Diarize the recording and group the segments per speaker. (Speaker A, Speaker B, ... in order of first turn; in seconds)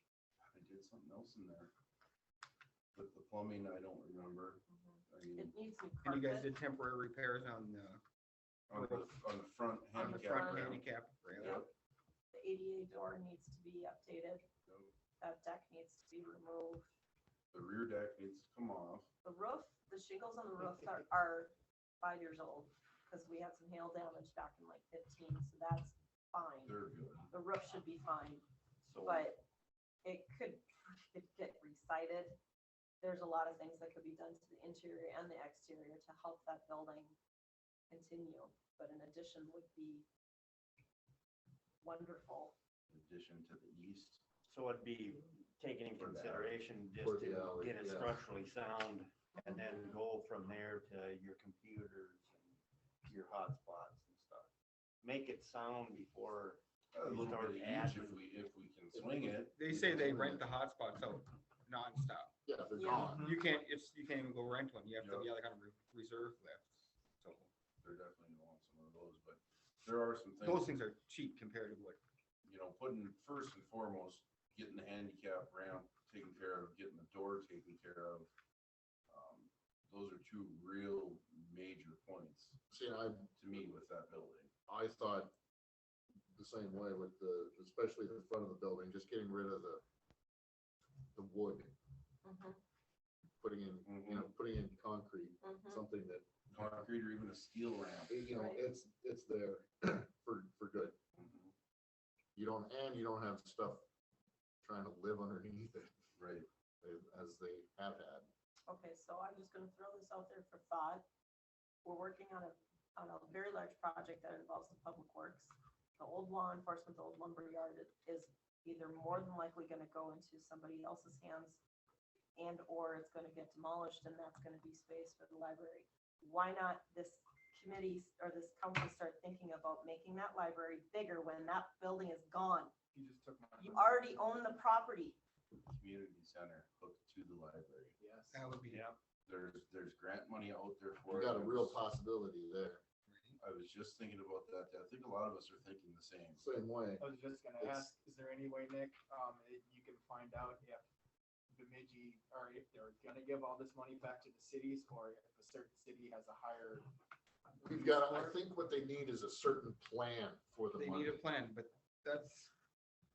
Speaker A: 0.5-1.7, 2.9-5.5, 8.7-10.8, 11.4-11.7, 14.7-14.9, 17.5-19.1, 26.6-27.3, 42.9-44.2, 46.0-46.6, 56.9-59.6, 65.0-65.3, 67.8-70.7, 72.5-78.3, 79.1-82.6, 83.4-84.5, 93.9-94.3, 96.5-98.3, 101.2-101.5, 106.2-106.5, 135.6-138.0, 139.3-141.8, 143.4-146.4
Speaker B: 4.7-6.5, 9.9-10.8, 11.4-11.7, 12.3-14.5, 15.2-16.9, 19.2-28.4, 29.0-29.4, 30.0-32.4, 33.0-37.2, 37.9-40.1, 41.8-42.6, 62.8-63.2, 92.2-92.6, 95.4-95.8, 98.3-98.6, 108.7-111.0, 111.8-121.6, 122.4-132.7, 133.6-135.2
Speaker C: 6.0-8.0, 8.7-9.1, 10.0-11.6, 59.6-62.3, 63.2-67.5, 70.4-72.0, 138.3-138.9, 143.1-143.4, 160.8-162.5
Speaker D: 28.8-29.3, 44.5-54.5, 55.0-58.2, 138.7-139.0
Speaker E: 47.0-48.2, 58.9-60.5, 62.5-63.3, 82.7-83.3, 84.7-85.3, 86.3-89.8, 91.1-91.8, 93.4-96.9, 98.1-101.0, 102.4-103.8, 104.6-105.9, 106.8-108.3, 141.1-142.8, 146.4-147.0, 147.6-147.9, 157.6-161.2
Speaker F: 63.1-63.4, 132.9-133.9, 138.0-138.5, 147.0-150.8, 151.5-156.9, 157.6-158.4